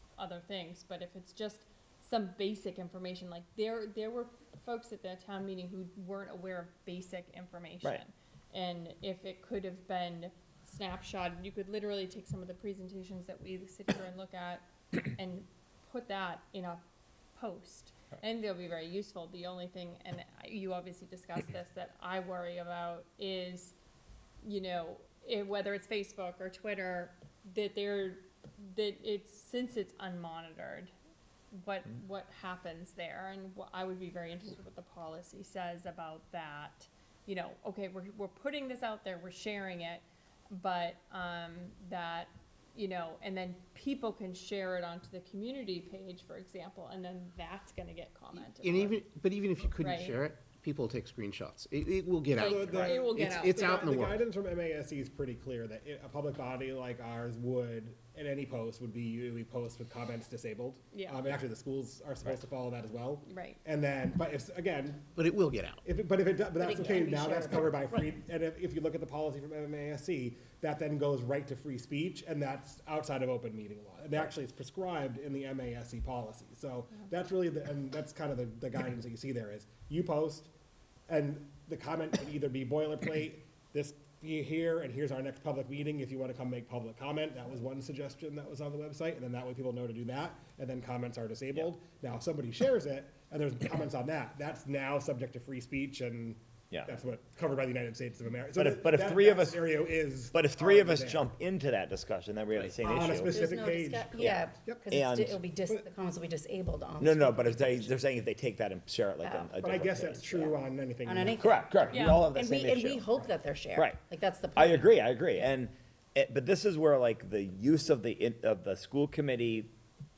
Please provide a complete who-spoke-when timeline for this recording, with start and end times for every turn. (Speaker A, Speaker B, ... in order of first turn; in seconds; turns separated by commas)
Speaker A: 0.2-16.8, Speaker A: 17.4-23.8, Speaker A: 24.4-30.9, Speaker A: 31.5-49.0, Speaker B: 48.6-54.2, Speaker A: 49.8-50.2, Speaker A: 52.3-53.9, Speaker C: 52.4-65.1, Speaker A: 60.9-61.3, Speaker A: 63.2-63.6, Speaker B: 65.2-65.8, Speaker C: 65.8-80.5, Speaker D: 66.6-68.1, Speaker C: 81.1-101.2, Speaker E: 98.6-99.7, Speaker E: 100.3-103.4, Speaker C: 102.8-104.8, Speaker D: 102.8-107.9, Speaker E: 104.2-105.4, Speaker E: 107.0-110.6, Speaker D: 109.2-109.5, Speaker C: 109.6-111.4, Speaker D: 111.0-115.0, Speaker E: 111.4-113.0, Speaker A: 111.9-112.3, Speaker E: 114.6-119.7